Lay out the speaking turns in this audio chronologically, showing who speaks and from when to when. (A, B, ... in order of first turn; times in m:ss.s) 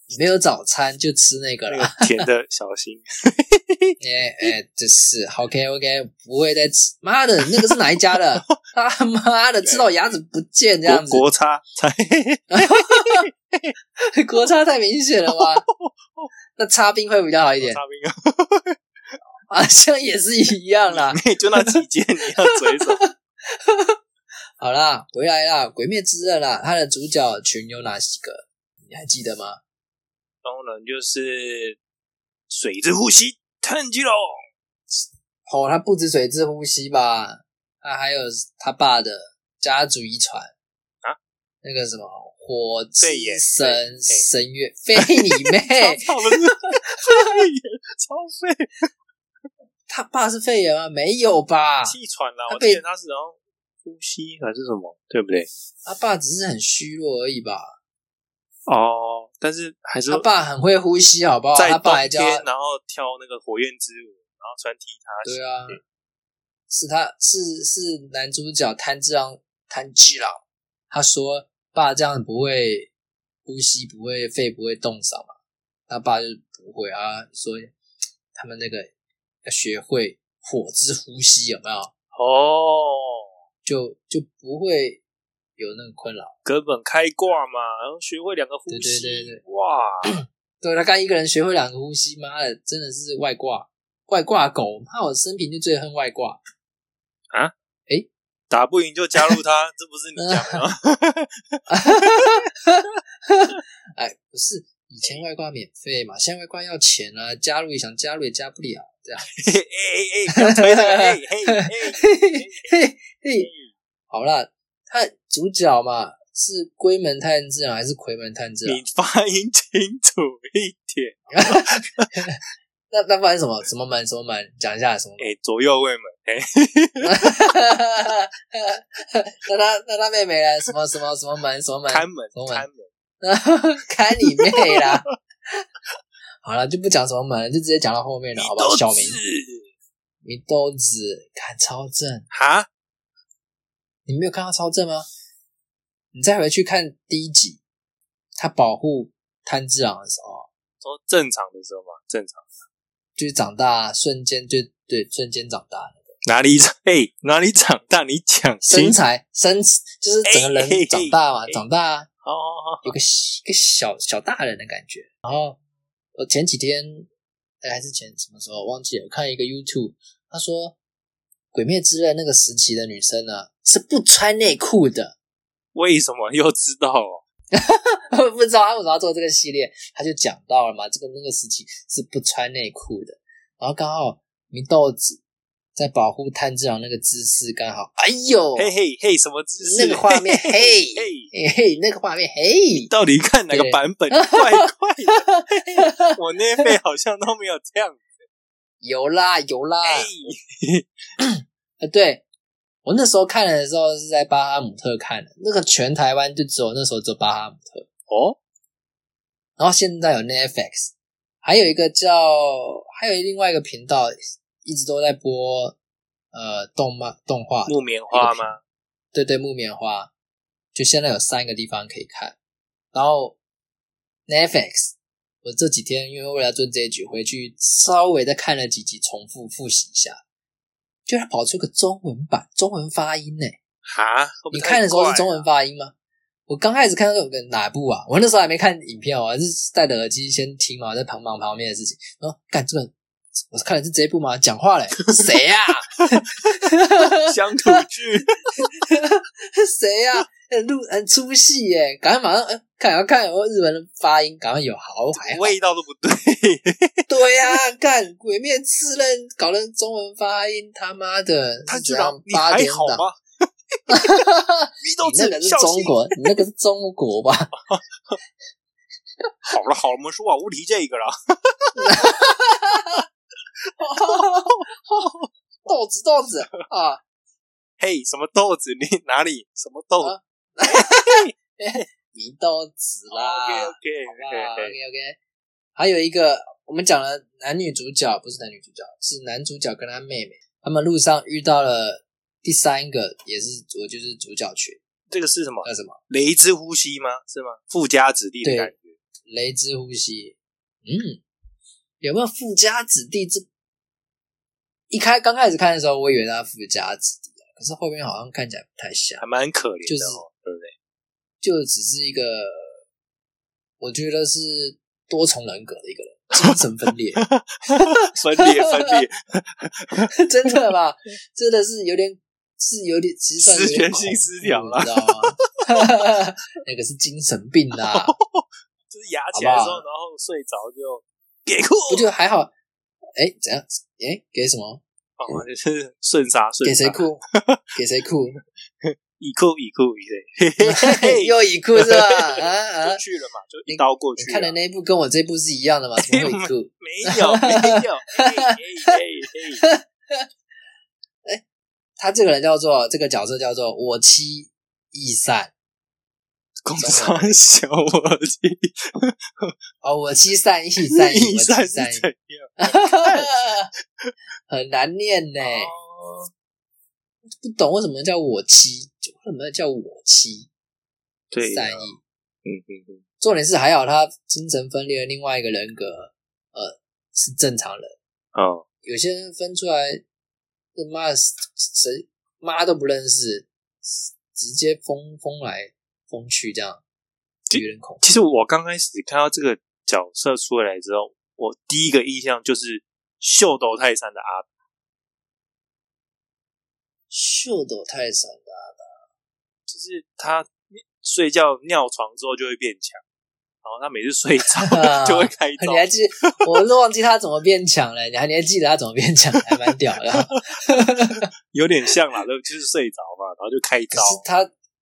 0:00.1-0:02.2 A
0:01.7-0:04.0 B
0:04.0-0:11.3 A
0:09.6-0:09.9 B
0:10.9-0:13.7 B
0:12.5-0:13.3 A
0:14.1-0:15.6 A
0:15.3-0:16.3 B
0:16.6-0:17.8 A
0:17.6-0:18.8 B
0:19.5-0:21.8 A
0:20.9-0:23.0 B
0:22.8-0:24.0 A
0:24.6-0:29.6 A
0:30.4-0:31.8 B
0:32.5-0:34.4 B
0:35.0-0:40.5 A
0:41.6-0:47.2 A
0:43.0-0:44.3 B
0:45.0-0:48.9 B
0:49.9-0:52.0 A
0:51.8-0:55.5 B
0:52.5-0:52.8 A
0:55.8-0:57.7 A
0:58.7-1:00.3 B
1:00.1-1:02.5 A
1:01.6-1:05.8 B
1:05.2-1:05.8 A
1:06.7-1:12.9 A
1:13.4-1:15.4 A
1:15.9-1:17.7 A
1:18.4-1:18.9 A
1:19.4-1:21.9 A
1:22.1-1:23.3 B
1:23.6-1:25.0 A
1:25.6-1:26.4 A
1:26.4-1:30.2 B
1:28.7-1:29.4 A
1:30.1-1:36.4 A
1:38.5-1:42.3 B
1:40.2-1:40.6 A
1:41.7-1:49.3 A
1:49.4-1:52.8 B
1:50.3-1:53.5 A
1:53.4-1:53.7 B
1:54.1-1:58.8 A
1:58.6-2:02.1 B
2:01.3-2:02.4 A
2:02.9-2:05.3 A
2:05.2-2:07.2 B
2:07.0-2:12.7 A
2:11.9-2:12.9 B
2:13.2-2:15.7 A
2:14.4-2:15.1 B
2:16.4-2:19.2 A
2:18.4-2:19.7 B
2:20.2-2:22.3 A
2:22.3-2:22.7 B
2:24.1-2:25.1 A
2:26.1-2:27.6 A
2:28.4-2:30.5 A
2:30.8-2:32.5 B
2:33.2-2:36.1 A
2:36.3-2:39.0 B
2:38.6-2:42.1 A
2:40.2-2:41.6 B
2:42.2-2:43.0 B
2:42.8-2:45.6 A
2:46.2-2:47.1 A
2:47.6-2:50.8 A
2:51.5-2:55.2 A
2:55.7-2:57.2 B
2:57.5-3:05.2 A
3:05.8-3:08.7 A
3:08.6-3:11.3 B
3:09.6-3:12.9 A
3:12.8-3:18.1 B
3:13.5-3:16.2 A
3:18.8-3:20.1 A
3:19.8-3:20.9 B
3:21.2-3:22.2 A
3:22.8-3:27.9 A
3:28.1-3:28.4 B
3:29.6-3:35.8 A
3:36.3-3:38.6 A
3:37.7-3:38.6 B
3:39.1-3:40.1 A
3:40.8-3:42.4 A
3:42.9-3:43.4 A
3:44.3-3:50.2 A
3:51.1-3:53.6 A
3:53.8-3:55.4 B
3:54.5-3:55.9 A
3:56.5-4:02.9 A
4:03.5-4:07.8 A
4:05.0-4:05.3 B
4:07.0-4:08.7 B
4:08.5-4:15.6 A
4:15.1-4:17.1 B
4:17.1-4:23.1 A
4:21.7-4:24.2 B
4:23.9-4:27.5 A
4:24.8-4:26.0 B
4:27.6-4:28.2 B
4:29.5-4:32.1 B
4:31.8-4:33.0 A
4:33.8-4:34.6 A
4:33.9-4:35.3 B
4:35.7-4:37.0 A
4:37.8-4:41.3 B
4:40.0-4:45.2 A
4:43.1-4:44.8 B
4:45.8-4:54.8 A
4:55.1-4:59.0 B
4:55.6-4:56.0 A
4:58.4-4:58.7 A
4:59.3-5:01.2 A
5:02.0-5:03.5 A
5:04.9-5:09.2 A
5:09.2-5:10.7 B
5:09.9-5:10.2 A
5:11.4-5:12.8 A
5:13.8-5:19.0 A
5:17.2-5:20.1 B
5:20.1-5:28.2 A
5:23.4-5:25.8 B
5:27.9-5:32.1 B
5:29.3-5:29.8 A
5:31.9-5:32.5 A
5:33.2-5:34.8 A
5:35.2-5:37.6 B
5:36.6-5:37.2 A
5:37.7-5:38.4 A
5:38.8-5:44.6 B
5:40.6-5:43.0 A
5:43.7-5:49.0 A
5:46.0-5:49.6 B
5:49.6-5:50.2 A
5:52.0-5:55.5 A
5:56.6-5:59.5 B
5:56.8-5:57.4 A
5:59.8-6:02.1 A
6:00.9-6:03.5 B
6:02.6-6:03.7 A
6:04.5-6:05.7 A
6:05.4-6:06.3 B
6:07.4-6:10.5 A
6:11.3-6:11.9 B
6:11.4-6:12.0 A
6:12.4-6:13.0 B
6:13.2-6:18.0 A
6:18.3-6:18.6 B
6:18.8-6:20.0 A
6:20.8-6:26.8 A
6:27.5-6:34.5 B
6:27.5-6:28.0 A
6:37.1-6:38.9 A
6:39.7-6:43.0 B
6:43.6-6:46.5 B
6:44.6-6:51.3 A
6:51.5-6:54.2 B
6:53.9-6:54.5 A